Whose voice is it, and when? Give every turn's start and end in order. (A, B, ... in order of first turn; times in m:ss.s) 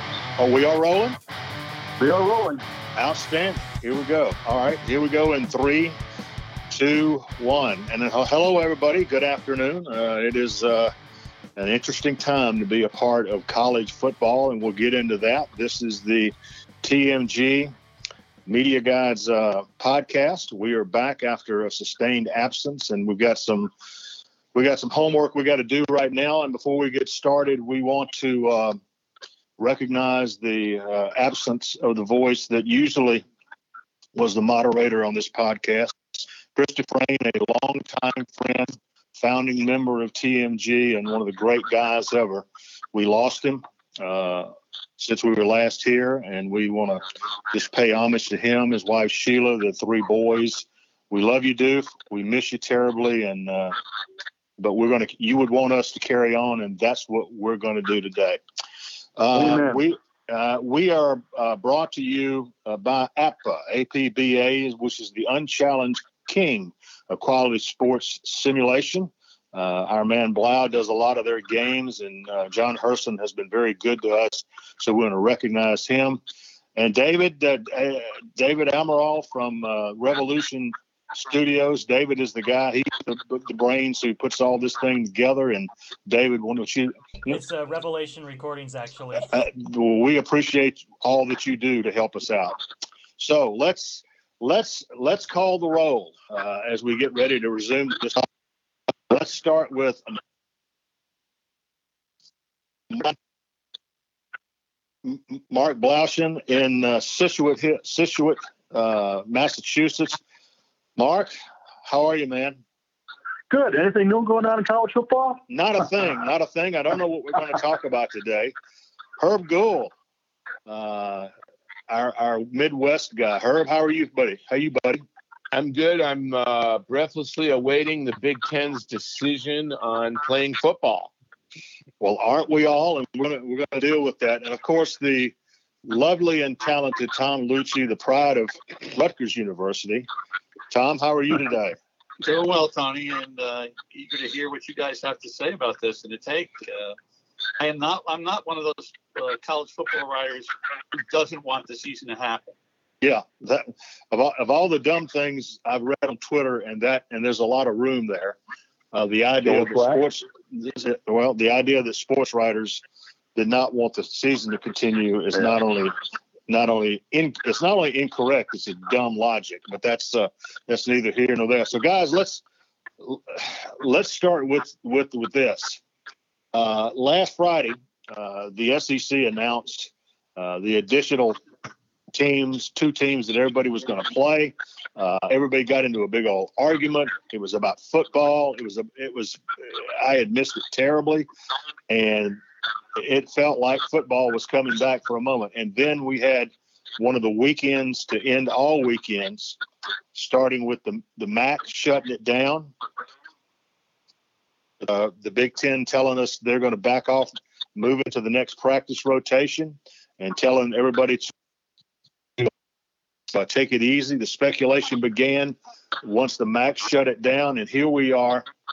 0:00.4-0:01.2 A
0:02.0-0:02.6 B
0:03.0-0:06.0 A
0:06.7-0:10.9 A
0:11.6-0:17.7 A
0:18.4-0:23.7 A
0:24.5-0:28.8 A
0:29.6-0:33.2 A
0:34.1-0:53.8 A
0:54.6-0:58.4 A
0:59.2-1:16.2 A
0:59.3-0:59.8 B
1:16.8-1:27.3 A
1:27.3-1:29.3 C
1:29.3-1:32.6 A
1:33.2-1:38.2 A
1:39.1-1:40.2 A
1:45.0-1:50.2 A
1:51.0-1:51.3 A
1:51.8-1:52.6 A
1:53.5-1:55.4 B
1:55.5-1:58.5 A
1:59.2-1:59.9 A
2:00.7-2:01.3 A
2:01.9-2:05.0 A
2:05.5-2:11.1 D
2:12.0-2:20.1 A
2:20.7-2:21.8 A
2:22.2-2:27.0 E
2:27.6-2:32.5 E
2:33.0-2:38.4 A
2:38.9-2:42.8 A
2:39.4-2:40.0 B
2:43.3-2:45.9 A
2:46.5-2:52.4 A
2:53.0-2:55.8 A
2:56.5-3:01.4 A
3:02.1-3:11.3 A
3:11.9-3:12.4 A
3:12.9-3:19.6 A
3:20.1-3:22.7 A
3:24.8-3:31.3 A
3:33.3-3:38.5 A